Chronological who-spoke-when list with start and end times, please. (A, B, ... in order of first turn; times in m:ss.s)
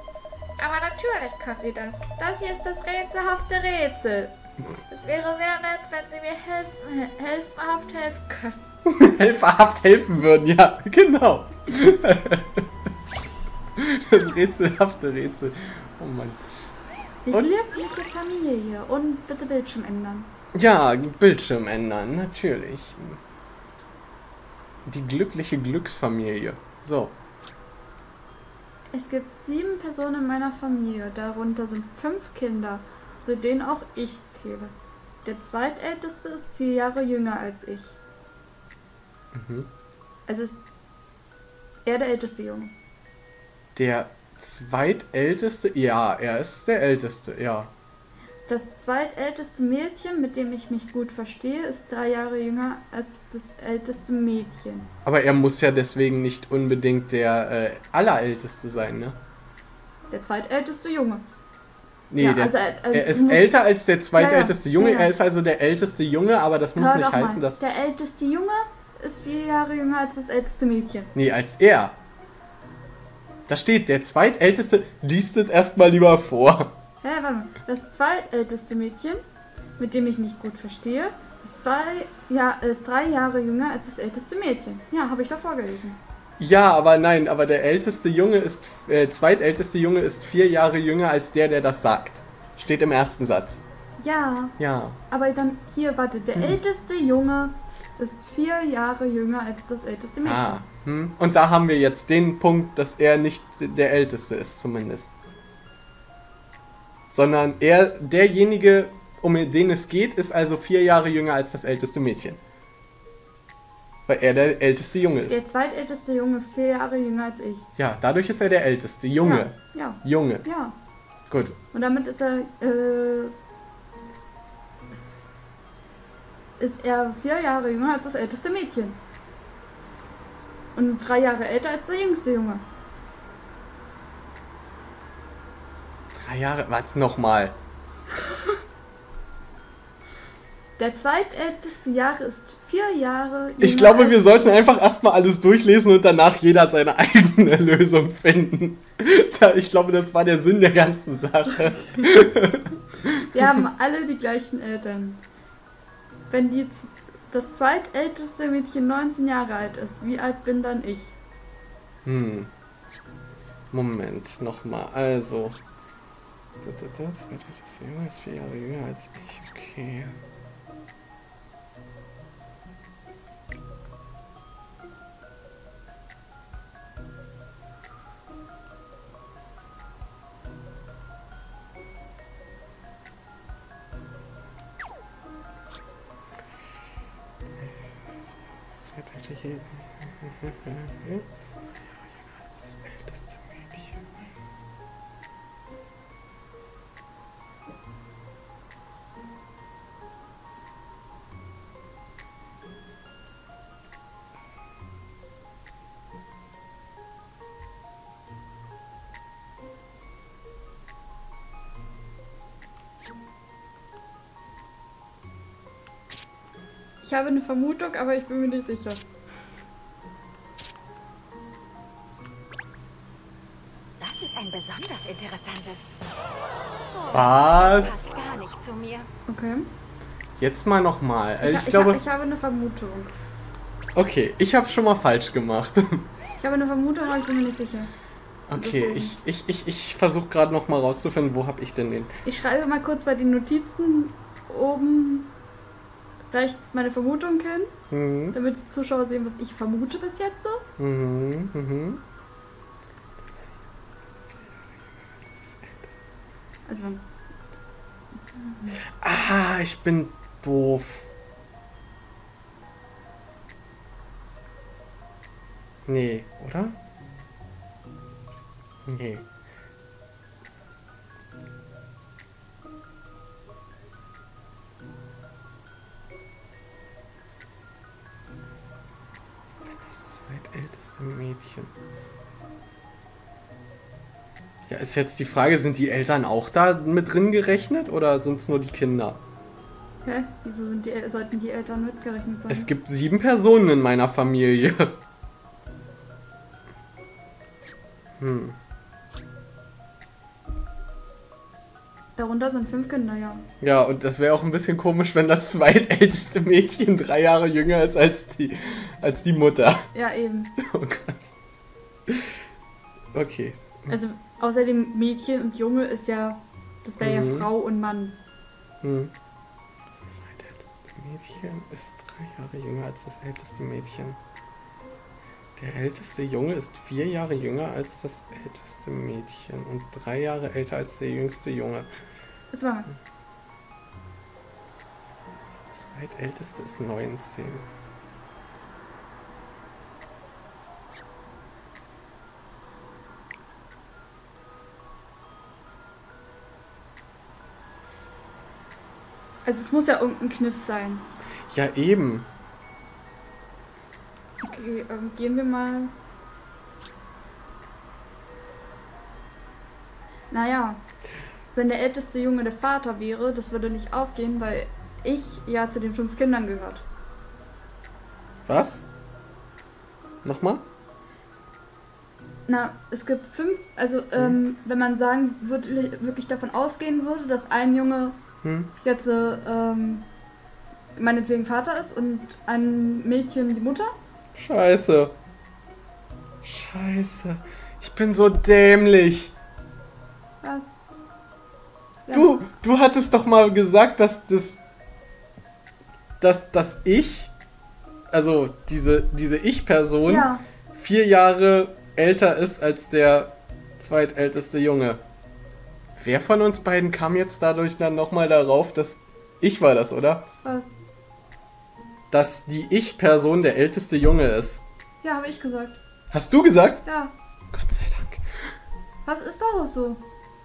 0:00.8-0:04.3 A
0:04.9-0:08.6 A
0:08.9-0:12.6 B
0:13.8-0:16.4 B
0:17.2-0:20.3 A
0:20.5-0:23.2 B
0:24.9-0:27.2 B
0:28.9-0:34.7 A
0:35.2-0:38.0 A
0:39.3-0:39.7 B
0:40.3-0:40.6 A
0:41.8-0:42.7 A
0:43.8-0:47.7 B
0:48.5-0:54.9 A
0:55.0-0:59.2 B
1:00.1-1:01.2 A
1:02.1-1:07.6 B
1:02.2-1:05.1 A
1:06.8-1:11.1 A
1:11.2-1:12.0 B
1:13.5-1:16.7 B
1:17.0-1:19.2 A
1:19.8-1:26.0 A
1:26.4-1:33.6 B
1:34.0-1:34.6 A
1:34.6-1:35.0 B
1:35.1-1:40.6 A
1:40.2-1:45.1 B
1:47.1-1:52.4 B
1:54.1-1:55.4 B
1:55.3-1:57.6 A
1:57.8-2:00.5 B
1:59.2-2:00.8 A
2:01.3-2:01.6 B
2:01.7-2:03.3 A
2:04.9-2:05.3 A
2:06.6-2:09.0 A
2:10.8-2:12.6 A
2:16.2-2:17.6 B
2:20.8-2:24.4 A
2:23.6-2:33.4 B
2:33.3-2:35.2 A
2:36.3-2:41.1 A
2:42.0-2:42.5 B
2:43.7-2:45.6 B
2:46.6-2:50.2 B
3:07.6-3:11.3 B
3:12.0-3:14.2 B
3:37.0-3:39.0 A
3:44.0-3:45.9 C
3:46.9-3:49.1 C
3:47.1-3:48.1 B
3:49.3-3:49.7 A
3:50.4-3:52.0 B
3:51.4-3:53.1 A
3:54.0-3:56.1 B
3:56.4-3:57.9 A
3:58.5-4:02.1 B
3:58.5-3:59.1 A
4:02.2-4:05.3 A
4:06.3-4:07.7 A
4:07.9-4:08.4 B
4:08.3-4:10.6 A
4:10.8-4:12.0 B
4:14.0-4:16.1 B
4:16.7-4:17.0 A
4:18.4-4:18.8 A
4:18.9-4:21.1 B
4:25.9-4:26.8 B
4:28.9-4:29.2 B
4:39.6-4:41.7 B
4:44.7-4:49.2 B
4:50.0-4:52.7 A
4:52.5-4:55.0 B
4:58.2-4:58.6 B
5:02.2-5:03.4 A
5:03.6-5:09.8 B
5:09.9-5:10.5 A
5:10.6-5:11.4 B
5:13.1-5:13.9 B
5:13.9-5:18.2 A
5:17.0-5:17.5 B
5:18.8-5:19.1 B
5:20.0-5:24.2 B
5:25.6-5:31.9 B
5:32.5-5:32.9 A
5:35.5-5:37.7 B
5:49.4-5:51.0 A
5:51.5-5:52.3 B
5:54.4-5:55.9 A
6:00.3-6:00.8 A
6:01.5-6:06.8 A
6:08.5-6:08.9 B
6:10.2-6:10.6 B
6:12.5-6:18.2 A
6:18.4-6:18.7 B
6:18.8-6:20.1 A
6:21.0-6:23.9 A
6:24.4-6:25.2 B
6:26.4-6:29.3 B
6:30.4-6:30.7 A
6:32.1-6:32.4 A
6:32.1-6:34.7 B
6:36.2-6:37.3 B
6:38.1-6:45.0 B
6:40.1-6:40.4 A
6:46.0-6:50.2 B
6:50.4-6:50.7 A
6:52.1-6:54.6 B
6:55.0-6:55.8 A
6:56.1-6:56.8 B
6:56.8-6:57.1 A
6:57.5-6:58.2 B
6:59.0-7:00.0 A